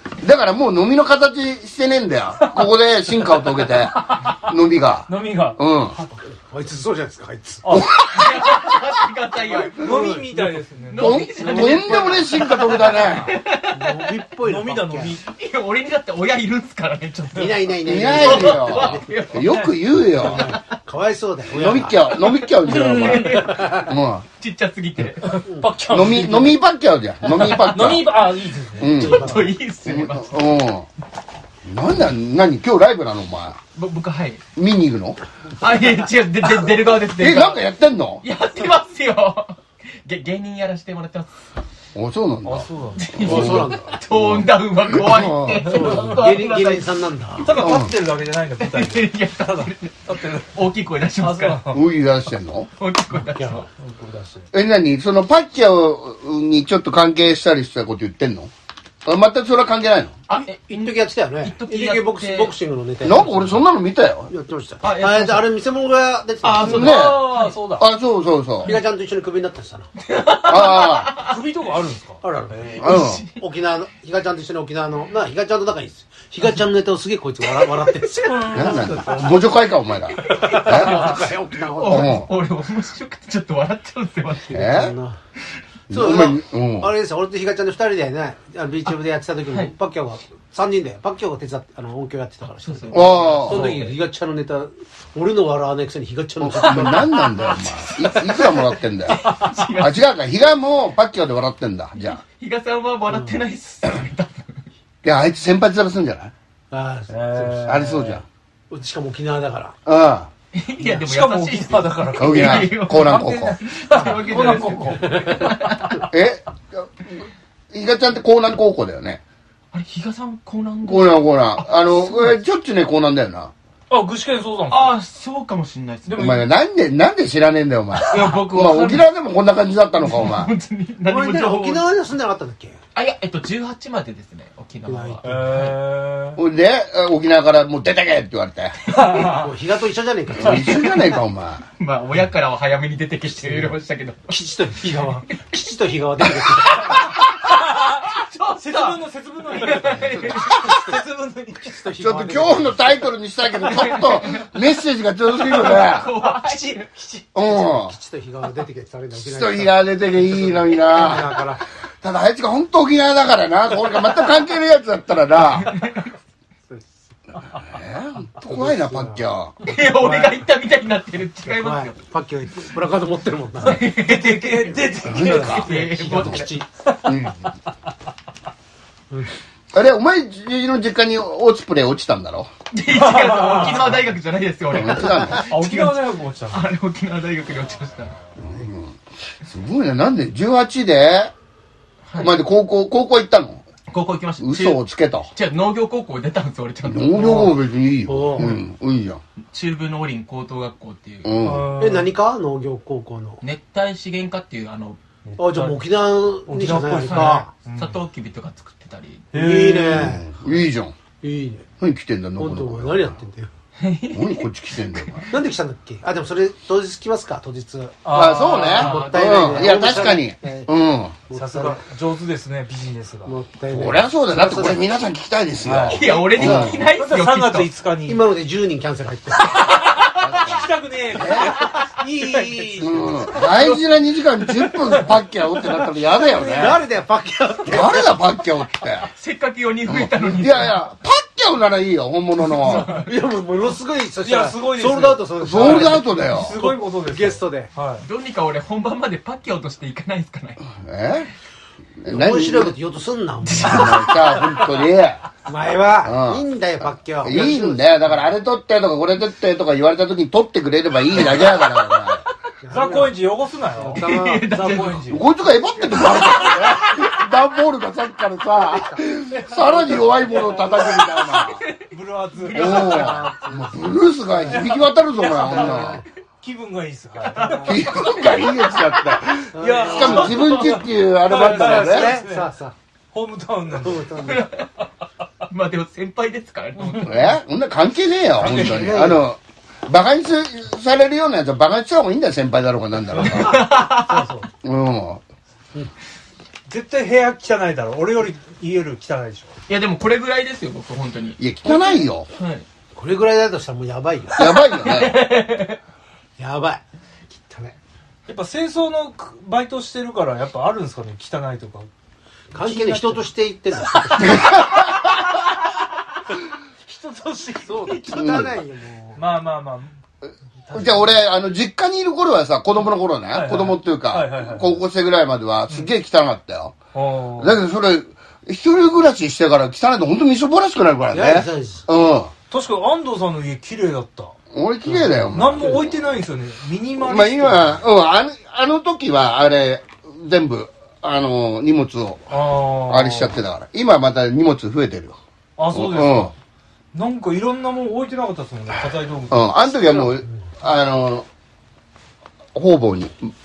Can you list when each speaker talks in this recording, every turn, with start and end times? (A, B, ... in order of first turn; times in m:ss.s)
0:00.2-0:06.0 A
0:03.6-0:04.4 B
0:05.1-0:06.1 B
0:06.3-0:07.6 C
0:07.6-0:07.9 B
0:07.7-0:08.5 A
0:08.0-0:10.0 D
0:09.5-0:10.2 A
0:09.7-0:10.3 C
0:09.8-0:11.4 B
0:10.9-0:14.1 D
0:11.0-0:13.4 A
0:11.3-0:12.9 C
0:13.7-0:15.2 C
0:14.4-0:15.2 B
0:15.3-0:19.5 D
0:17.3-0:19.1 C
0:17.8-0:20.6 A
0:19.3-0:20.0 B
0:20.1-0:22.0 C
0:20.2-0:20.6 D
0:21.5-0:24.2 A
0:22.2-0:25.4 D
0:22.7-0:23.2 B
0:23.2-0:23.9 C
0:25.2-0:26.6 B
0:25.4-0:25.7 C
0:25.9-0:28.1 A
0:27.3-0:29.3 B
0:27.3-0:28.0 D
0:28.8-0:29.3 A
0:28.8-0:29.5 C
0:28.9-0:30.4 D
0:29.8-0:30.9 A
0:31.6-0:33.6 A
0:33.7-0:34.4 D
0:34.6-0:35.2 A
0:35.6-0:37.6 D
0:37.2-0:38.2 A
0:38.2-0:41.4 D
0:41.9-0:45.7 A
0:42.4-0:43.3 B
0:43.0-0:47.0 D
0:43.2-0:44.0 C
0:45.6-0:47.6 C
0:45.7-0:46.2 B
0:47.4-0:50.6 B
0:47.6-0:47.9 A
0:48.6-0:51.7 D
0:51.2-0:51.8 B
0:51.7-0:52.7 A
0:52.8-0:53.7 D
0:53.2-0:53.7 C
0:53.8-0:54.5 B
0:54.5-0:58.5 A
0:59.0-1:00.2 A
1:00.3-1:02.5 D
1:00.4-1:03.6 C
1:03.0-1:04.3 A
1:04.3-1:06.9 C
1:04.8-1:05.5 D
1:06.4-1:07.6 D
1:06.6-1:07.9 B
1:06.6-1:08.7 A
1:08.6-1:09.9 C
1:10.0-1:11.4 D
1:10.4-1:11.1 A
1:11.2-1:12.9 B
1:12.2-1:19.4 C
1:12.8-1:13.4 D
1:12.8-1:13.2 A
1:17.5-1:19.2 D
1:18.3-1:19.1 B
1:18.5-1:21.1 A
1:20.2-1:24.8 D
1:20.2-1:22.2 C
1:21.8-1:22.3 A
1:24.4-1:25.2 C
1:24.5-1:24.9 A
1:25.9-1:26.9 A
1:25.9-1:37.2 C
1:32.6-1:33.9 D
1:32.9-1:33.7 A
1:33.5-1:33.9 B
1:36.4-1:39.2 A
1:37.2-1:40.0 D
1:39.2-1:39.6 B
1:39.8-1:42.2 A
1:42.2-1:44.7 D
1:43.1-1:43.4 C
1:45.0-1:46.3 A
1:46.7-1:48.0 C
1:47.1-1:48.2 B
1:47.6-1:48.2 A
1:48.7-1:49.8 C
1:49.8-1:50.3 A
1:50.5-1:56.1 D
1:50.8-1:55.5 B
1:52.2-1:53.6 A
1:54.0-1:55.8 C
1:56.1-1:59.2 A
1:59.7-2:02.4 D
2:00.8-2:03.5 A
2:03.9-2:05.0 B
2:04.7-2:06.4 D
2:06.0-2:06.4 B
2:06.2-2:10.5 A
2:08.0-2:09.0 D
2:10.0-2:11.9 D
2:11.0-2:12.8 C
2:12.9-2:15.8 D
2:14.8-2:15.2 C
2:15.2-2:16.4 B
2:16.4-2:18.7 A
2:18.9-2:19.5 B
2:19.2-2:21.1 C
2:20.3-2:21.6 A
2:21.8-2:24.4 D
2:23.3-2:23.8 C
2:24.3-2:27.1 C
2:26.2-2:30.8 D
2:27.5-2:31.8 B
2:30.0-2:31.0 C
2:31.6-2:33.1 C
2:32.0-2:36.1 A
2:33.6-2:34.5 D
2:35.3-2:36.9 D
2:36.2-2:37.2 B
2:37.3-2:38.0 A
2:37.5-2:41.6 C
2:39.1-2:45.7 A
2:45.5-2:46.0 D
2:47.5-2:49.5 A
2:48.4-2:50.4 C
2:49.6-2:52.0 D
2:51.5-2:53.9 C
2:53.6-2:56.6 D
2:53.7-2:55.9 B
2:55.0-2:56.4 A
2:55.2-2:56.7 C
2:56.8-2:57.5 B
2:57.0-2:57.5 A
2:59.7-3:02.5 A
3:02.7-3:08.2 D
3:02.9-3:03.9 B
3:04.7-3:05.4 A
3:05.3-3:06.6 B
3:08.4-3:08.7 C
3:08.4-3:11.3 A
3:12.1-3:12.4 D
3:12.2-3:13.6 A
3:13.9-3:14.8 D
3:14.4-3:15.3 A
3:15.3-3:17.5 D
3:16.8-3:19.2 A
3:18.1-3:18.6 C
3:19.5-3:21.4 D
3:21.2-3:21.7 A
3:21.4-3:22.1 B
3:21.8-3:23.4 C
3:23.4-3:25.0 D
3:25.2-3:25.8 B
3:25.4-3:27.5 C
3:26.5-3:28.0 B
3:27.0-3:29.3 D
3:29.3-3:30.2 B
3:29.3-3:30.4 C
3:30.0-3:30.9 A
3:31.2-3:31.6 C
3:31.8-3:33.2 A
3:32.4-3:33.5 C
3:33.8-3:35.3 D
3:34.1-3:35.3 A
3:35.3-3:38.0 C
3:38.0-3:39.1 B
3:38.1-3:41.1 A
3:38.7-3:40.7 C
3:38.8-3:40.0 D
3:41.3-3:41.8 C
3:41.3-3:43.3 B
3:43.2-3:44.8 C
3:43.7-3:46.9 A
3:45.6-3:48.2 B
3:45.9-3:47.7 D
3:46.1-3:46.8 C
3:48.1-3:49.7 C
3:49.4-3:53.4 B
3:50.2-3:51.5 A
3:52.1-3:53.2 C
3:52.8-3:56.8 A
3:53.3-3:54.7 D
3:56.3-3:58.2 C
3:56.3-3:56.7 B
3:57.6-3:59.1 A
3:59.2-4:00.8 D
3:59.9-4:02.9 A
4:02.6-4:07.7 C
4:02.7-4:03.0 D
4:02.7-4:03.0 B
4:04.2-4:08.0 B
4:05.4-4:06.6 A
4:08.0-4:10.7 D
4:10.7-4:11.3 A
4:12.0-4:12.7 A
4:12.0-4:14.6 C
4:13.4-4:14.1 D
4:13.6-4:15.2 A
4:15.4-4:18.2 C
4:16.0-4:16.4 A
4:17.2-4:22.2 A
4:21.1-4:22.3 D
4:22.6-4:23.2 C
4:22.7-4:25.2 B
4:23.7-4:24.4 C
4:23.9-4:25.2 D
4:25.1-4:31.6 A
4:25.4-4:26.5 C
4:28.7-4:29.0 C
4:29.3-4:31.0 B
4:30.8-4:31.8 D
4:31.9-4:33.5 B
4:32.4-4:33.3 D
4:32.5-4:36.0 A
4:32.9-4:34.6 C
4:34.3-4:34.6 B
4:35.2-4:35.7 D
4:35.3-4:36.0 C
4:35.4-4:37.8 B
4:37.2-4:39.2 D
4:37.6-4:42.2 A
4:39.5-4:40.8 C
4:39.6-4:42.5 B
4:40.4-4:40.8 D
4:41.3-4:42.7 C
4:43.1-4:44.2 B
4:43.7-4:44.5 C
4:44.2-4:44.7 D
4:45.5-4:47.3 D
4:46.8-4:47.3 B
4:47.0-4:53.6 A
4:48.4-4:49.1 B
4:48.4-4:49.2 C
4:53.2-4:54.3 D
4:53.3-4:54.3 C
4:54.0-4:54.4 B
4:54.6-4:55.2 A
4:56.7-4:59.5 B
4:59.7-5:01.4 D
5:01.4-5:02.3 A
5:02.3-5:02.6 D
5:02.9-5:04.6 C
5:04.3-5:05.2 A
5:04.8-5:05.8 D
5:06.4-5:07.8 C
5:08.3-5:11.9 B
5:12.5-5:14.6 C
5:12.5-5:13.3 B
5:14.2-5:14.9 A
5:16.8-5:18.0 B
5:17.6-5:19.2 C
5:17.9-5:18.5 D
5:18.1-5:18.5 A
5:19.2-5:20.0 B
5:20.6-5:21.2 B
5:20.7-5:26.8 A
5:23.3-5:24.8 B
5:26.9-5:27.6 B
5:27.4-5:32.3 A
5:31.1-5:31.9 C
5:32.5-5:37.8 B
5:34.5-5:36.0 A
5:37.0-5:45.2 A
5:42.3-5:43.4 B
5:45.6-5:46.3 B
5:45.7-5:46.3 A
5:46.9-5:50.1 B
5:49.3-5:51.3 A
5:50.2-5:50.4 C
5:52.5-5:53.3 A